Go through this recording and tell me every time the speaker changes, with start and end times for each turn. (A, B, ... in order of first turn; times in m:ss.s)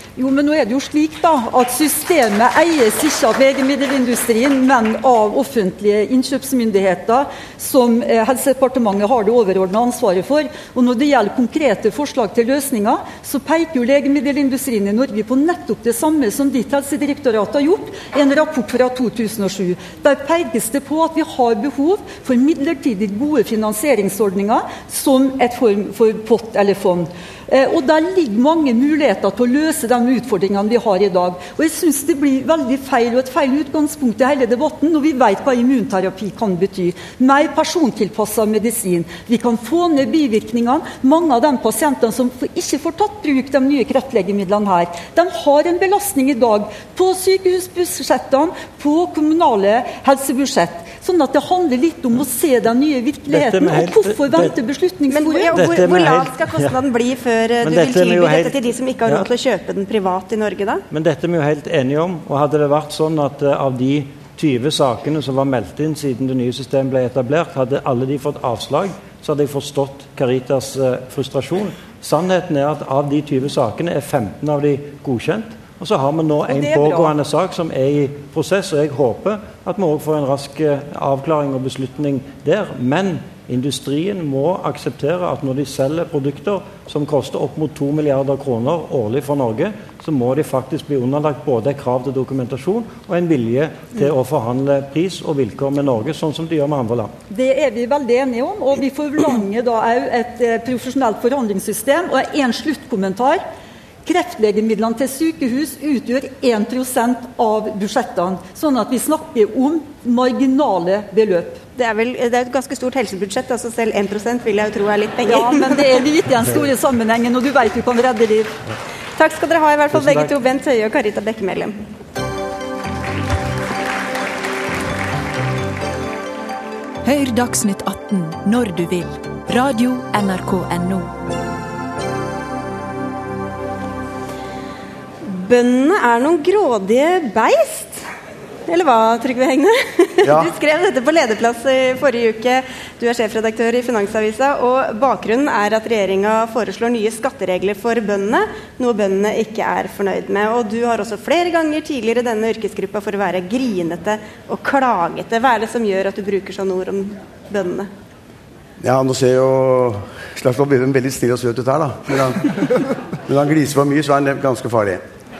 0:00.2-0:55.6 A
0:53.3-0:54.6 B
0:55.1-1:00.8 C
0:55.5-0:56.7 B
0:57.6-0:59.3 B
1:00.9-1:37.1 B
1:16.5-1:17.1 A
1:37.3-1:43.4 A
1:44.0-1:51.6 A
1:51.8-1:56.0 C
1:55.3-1:58.5 A
1:59.2-2:01.8 C
2:07.0-2:11.1 D
2:15.2-2:18.1 C
2:18.7-2:37.9 C
2:20.2-2:20.5 E
2:38.8-2:42.5 E
2:43.3-2:45.0 E